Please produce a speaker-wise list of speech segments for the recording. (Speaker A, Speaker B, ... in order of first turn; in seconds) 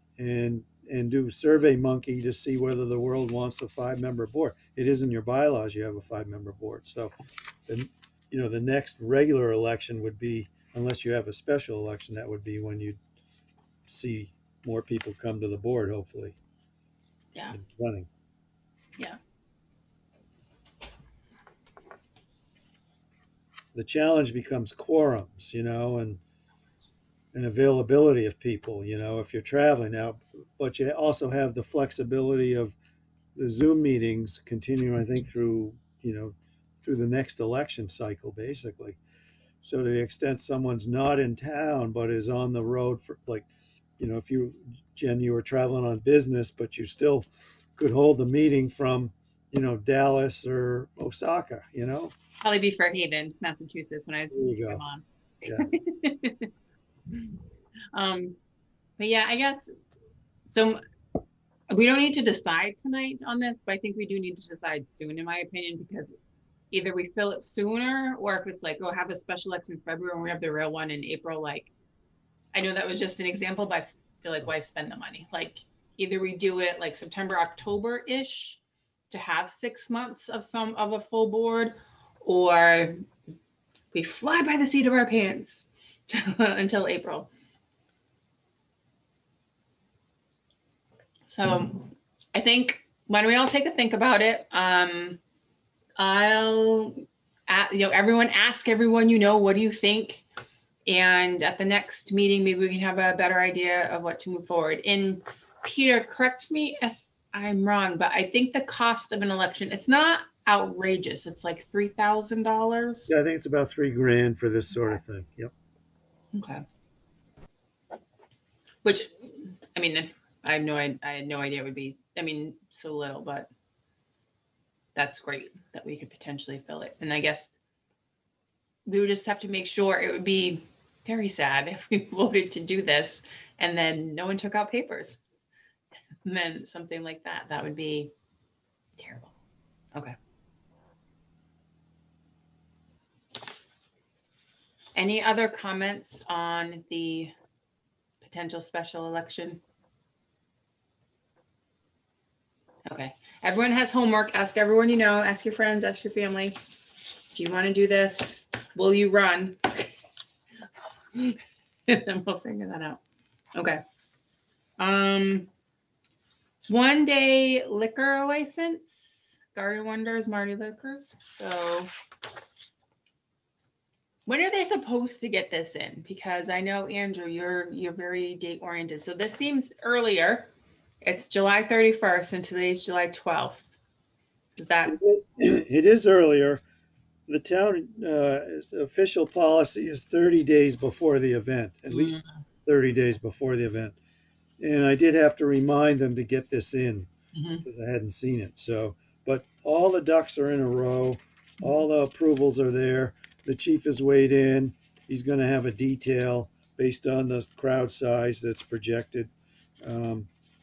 Speaker A: 0.2-7.1, 7.7-13.0, 13.9-16.4, 17.5-18.1, 23.7-26.2, 27.3-32.8, 33.4-39.0, 39.6-43.5, 44.0-52.1, 54.3-54.8, 113.1-115.5, 184.8-186.6, 187.3-194.0, 194.6-197.1, 197.6-209.3, 209.8-210.3
Speaker B: 52.4-56.5, 57.9-58.4, 59.0-59.7, 60.5-60.8, 61.7-66.2, 66.7-71.7, 72.5-78.6, 79.1-83.0, 83.9-87.3, 91.3-95.2, 96.0-100.2, 100.9-113.1, 116.3-116.7, 118.8-123.5, 125.0-127.5, 128.9-135.2, 136.2-138.1, 139.0-139.3, 144.9-147.3, 148.2-149.6, 152.9-156.6, 157.3-159.9, 161.1-163.0, 164.8-165.5, 166.7-171.9, 174.3-180.5, 181.0-183.8, 184.6-185.0, 191.9-192.3, 197.3-197.6